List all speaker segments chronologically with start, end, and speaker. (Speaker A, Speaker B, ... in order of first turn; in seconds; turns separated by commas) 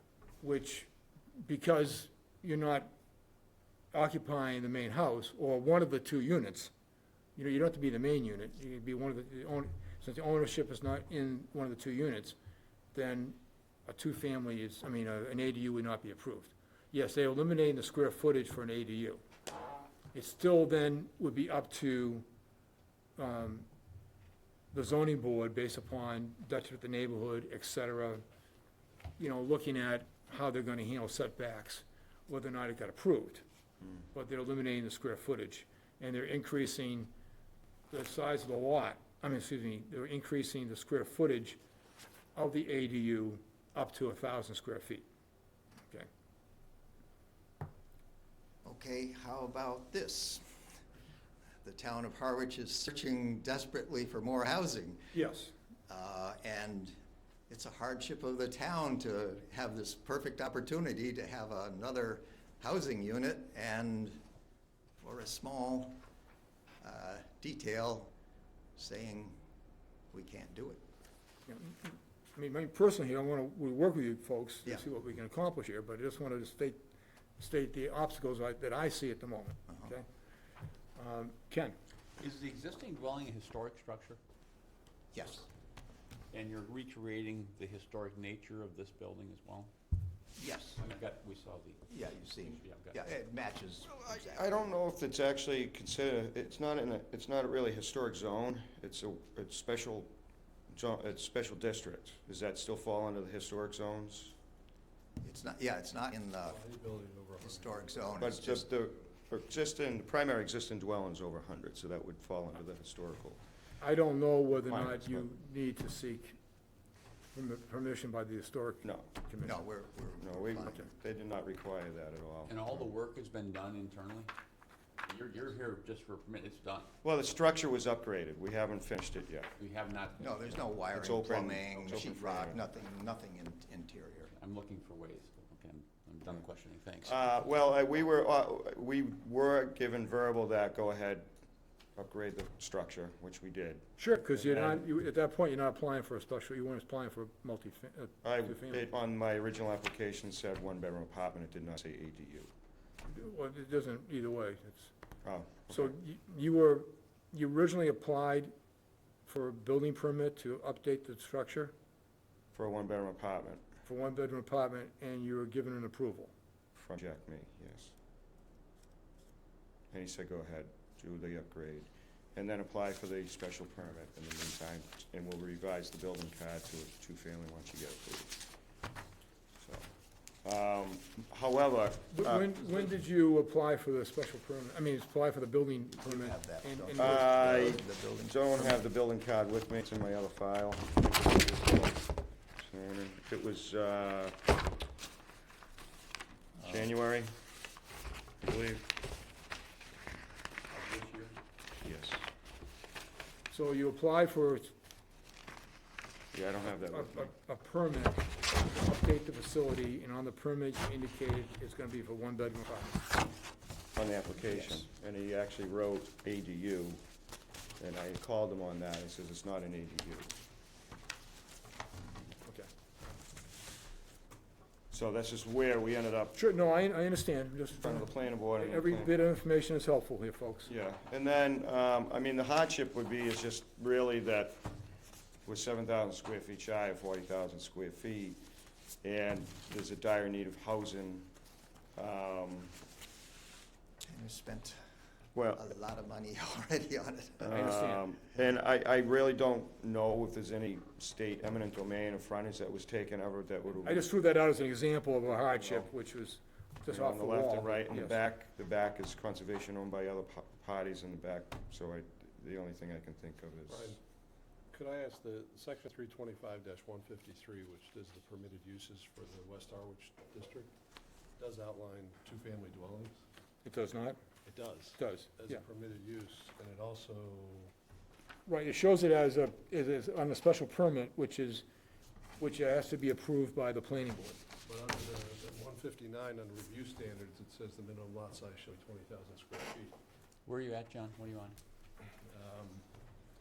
Speaker A: 0.4-2.9, Speaker A: 3.9-6.7, Speaker A: 7.3-12.3, Speaker A: 12.9-19.2, Speaker A: 20.1-22.2, Speaker A: 23.2-23.7, Speaker A: 24.7-28.2, Speaker A: 29.2-33.4, Speaker A: 34.1-37.1, Speaker A: 37.9-41.6, Speaker A: 42.4-45.0, Speaker B: 48.6-50.5, Speaker B: 51.6-55.1, Speaker A: 55.1-55.5, Speaker B: 55.9-56.9, Speaker B: 57.5-64.2, Speaker B: 65.0-66.0, Speaker B: 66.8-68.1, Speaker B: 68.8-69.4, Speaker B: 70.1-70.8, Speaker A: 71.5-76.8, Speaker A: 77.4-80.0, Speaker A: 81.0-81.8, Speaker C: 82.2-84.2, Speaker B: 85.1-85.5, Speaker C: 86.3-89.7, Speaker B: 90.4-90.8, Speaker C: 90.8-93.0, Speaker B: 91.9-94.7, Speaker D: 94.1-100.1, Speaker D: 100.7-104.3, Speaker B: 105.2-106.6, Speaker E: 106.4-108.4, Speaker B: 107.4-108.7, Speaker D: 108.2-113.4, Speaker A: 113.8-116.4, Speaker D: 114.6-115.3, Speaker A: 117.3-119.6, Speaker D: 118.8-119.1, Speaker B: 119.4-120.9, Speaker D: 120.2-122.6, Speaker C: 122.5-124.3, Speaker C: 125.0-126.9, Speaker D: 127.0-129.5, Speaker C: 129.6-130.6, Speaker B: 130.2-134.3, Speaker D: 130.9-132.6, Speaker C: 134.3-137.2, Speaker D: 137.0-141.3, Speaker D: 141.9-143.8, Speaker A: 144.0-148.8, Speaker D: 144.5-144.8, Speaker D: 148.2-152.5, Speaker A: 153.1-154.9, Speaker D: 155.2-155.9, Speaker A: 155.7-158.5, Speaker A: 159.2-161.7, Speaker D: 162.5-163.6, Speaker A: 163.8-166.3, Speaker D: 166.8-167.9, Speaker D: 169.9-178.4, Speaker D: 179.6-179.9, Speaker D: 180.4-182.9, Speaker A: 182.1-187.3, Speaker B: 186.0-188.8, Speaker D: 187.0-194.4, Speaker D: 196.6-197.4, Speaker D: 198.4-198.9, Speaker C: 200.7-201.4, Speaker D: 201.8-202.3, Speaker A: 203.5-204.7, Speaker D: 206.3-207.3, Speaker A: 206.7-213.0, Speaker D: 213.9-217.0, Speaker D: 217.8-220.3, Speaker D: 224.9-226.4, Speaker A: 226.3-230.7, Speaker D: 227.8-229.2, Speaker D: 230.7-234.7, Speaker D: 235.4-238.4, Speaker D: 239.0-241.3, Speaker D: 241.9-242.8, Speaker B: 244.0-244.8, Speaker D: 245.3-245.7, Speaker B: 245.6-247.5, Speaker D: 247.4-254.0, Speaker A: 247.5-248.0, Speaker A: 253.8-258.2, Speaker D: 255.5-255.9, Speaker D: 256.9-264.0, Speaker E: 263.7-264.0, Speaker E: 264.7-270.7, Speaker E: 271.4-273.1, Speaker A: 273.6-274.2, Speaker E: 274.4-277.7, Speaker A: 275.0-275.6, Speaker A: 278.4-281.6, Speaker A: 282.4-284.4, Speaker E: 284.6-289.9, Speaker C: 290.4-291.6, Speaker E: 292.3-292.8